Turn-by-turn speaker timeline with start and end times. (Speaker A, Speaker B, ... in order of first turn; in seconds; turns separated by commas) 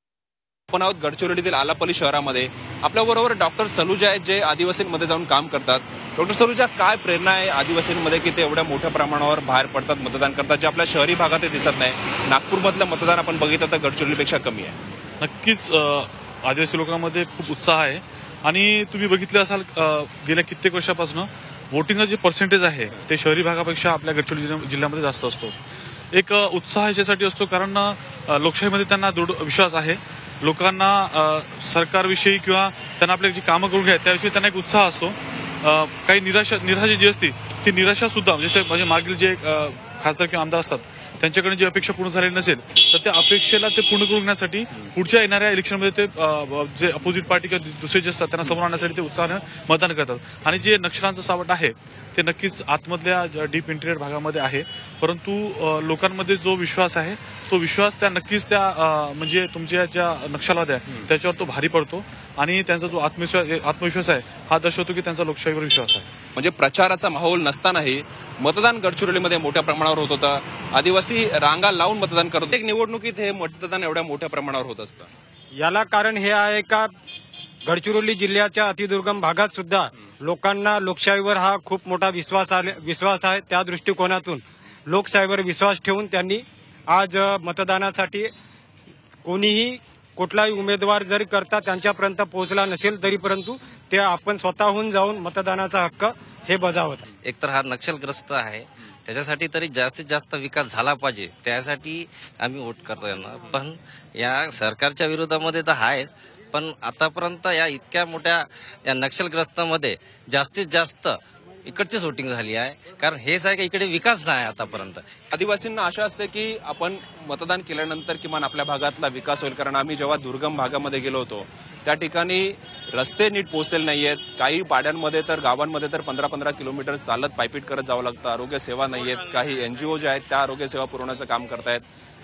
Speaker A: 0.7-14.8, Speaker B: 15.2-25.5, Speaker B: 26.1-66.1, Speaker A: 66.3-75.1, Speaker C: 75.5-76.9, Speaker C: 77.7-88.3, Speaker C: 89.2-97.0, Speaker D: 97.2-115.0, Speaker A: 115.3-131.8